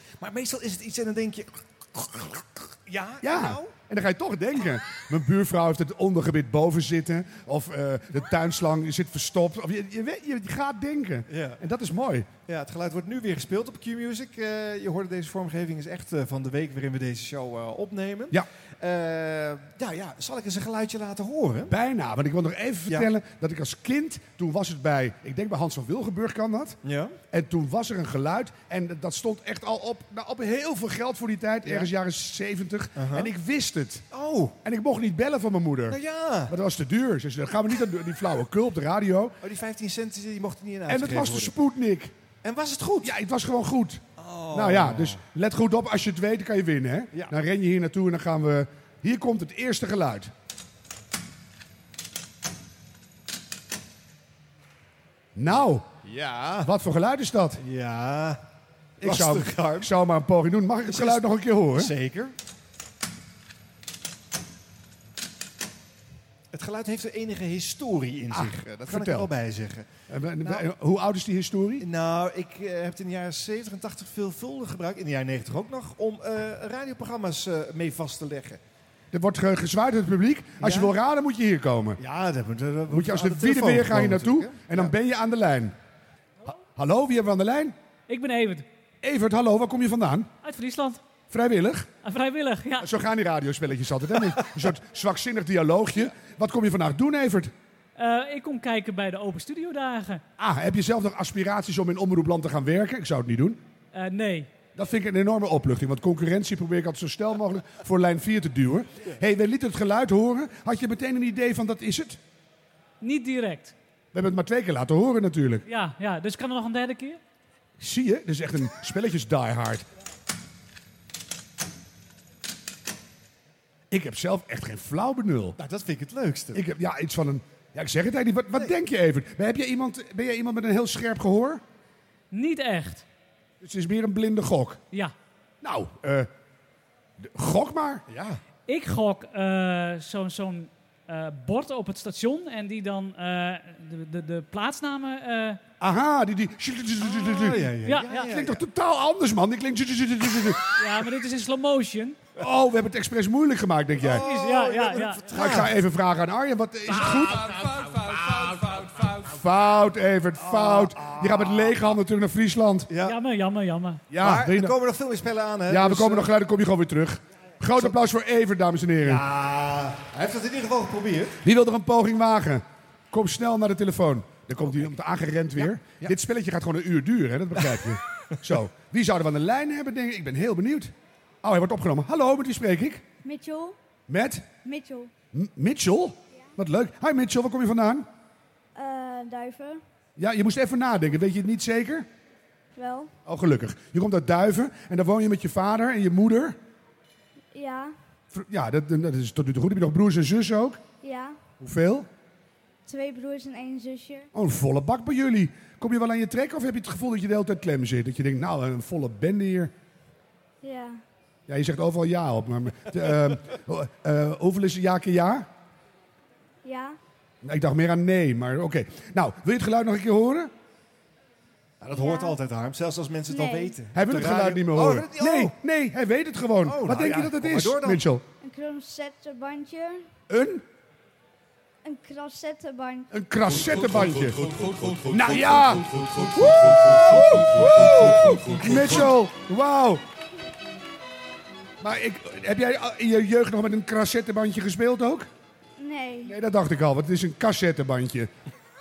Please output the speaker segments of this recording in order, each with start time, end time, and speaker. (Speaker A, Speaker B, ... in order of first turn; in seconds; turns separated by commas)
Speaker A: 0.2-3.7, Speaker B: 3.2-12.3, Speaker A: 11.3-11.6, Speaker A: 12.5-21.7, Speaker B: 21.7-26.8, Speaker A: 26.8-27.1, Speaker B: 27.3-34.0, Speaker A: 33.0-33.3, Speaker A: 34.1-34.6, Speaker B: 34.6-36.0, Speaker A: 35.9-36.5, Speaker B: 36.5-39.4, Speaker A: 39.4-41.5, Speaker B: 40.9-42.1, Speaker A: 42.4-43.1, Speaker B: 43.0-44.0, Speaker A: 44.2-45.2, Speaker B: 44.5-50.3, Speaker B: 55.4-55.9, Speaker A: 56.0-56.7, Speaker B: 56.6-57.6, Speaker A: 57.6-58.4, Speaker B: 59.0-61.9, Speaker A: 59.0-59.9, Speaker A: 60.9-61.2, Speaker A: 61.8-62.3, Speaker A: 66.5-69.9, Speaker B: 68.3-69.3, Speaker B: 70.1-71.8, Speaker A: 71.8-78.6, Speaker B: 79.1-82.0, Speaker A: 80.6-80.9, Speaker A: 82.0-84.9, Speaker B: 82.9-85.8, Speaker B: 86.8-87.8, Speaker C: 88.1-88.7, Speaker B: 89.0-90.3, Speaker C: 90.4-91.0, Speaker B: 91.3-91.9, Speaker C: 92.0-92.9, Speaker B: 92.8-97.5, Speaker C: 98.0-100.2, Speaker B: 100.4-103.6, Speaker C: 103.9-104.5, Speaker B: 104.8-112.2, Speaker C: 113.0-113.7, Speaker B: 114.1-115.7, Speaker C: 115.7-117.2, Speaker B: 117.8-119.8, Speaker B: 123.9-125.6, Speaker A: 125.6-126.6, Speaker B: 126.5-131.6, Speaker C: 132.3-133.1, Speaker B: 133.6-134.8, Speaker B: 135.6-136.3, Speaker B: 137.2-138.0, Speaker A: 138.1-138.4, Speaker C: 138.7-145.6, Speaker B: 145.8-150.6, Speaker A: 147.0-148.6, Speaker C: 147.9-148.3, Speaker C: 150.8-152.2, Speaker B: 152.4-154.3, Speaker A: 154.0-155.7, Speaker C: 154.2-155.3, Speaker B: 155.3-157.6, Speaker B: 159.2-162.9, Speaker A: 160.4-161.8, Speaker A: 162.9-163.2, Speaker C: 163.1-164.0, Speaker B: 164.1-164.8, Speaker A: 164.2-166.3, Speaker B: 165.7-169.2, Speaker A: 169.0-171.4, Speaker B: 171.4-183.0, Speaker A: 175.6-176.1, Speaker D: 183.2-183.8, Speaker B: 184.1-184.5, Speaker D: 184.6-185.1, Speaker B: 185.3-188.1, Speaker D: 188.8-189.8, Speaker B: 190.2-192.1, Speaker D: 192.8-193.1, Speaker B: 193.3-196.6, Speaker D: 197.5-197.9, Speaker B: 198.3-200.8, Speaker D: 201.0-201.4, Speaker B: 201.6-202.1, Speaker D: 202.9-204.3, Speaker B: 204.3-209.7, Speaker D: 210.6-211.0, Speaker B: 211.5-215.5, Speaker D: 216.6-217.0, Speaker B: 217.4-220.5, Speaker A: 221.8-225.6, Speaker D: 221.9-222.4, Speaker D: 223.3-223.8, Speaker B: 223.9-228.2, Speaker A: 226.6-228.0, Speaker D: 228.4-230.1, Speaker B: 230.3-230.6, Speaker D: 231.8-233.1, Speaker B: 233.1-234.5, Speaker B: 235.0-240.0, Speaker B: 241.8-245.3, Speaker D: 245.8-246.3, Speaker B: 246.3-248.3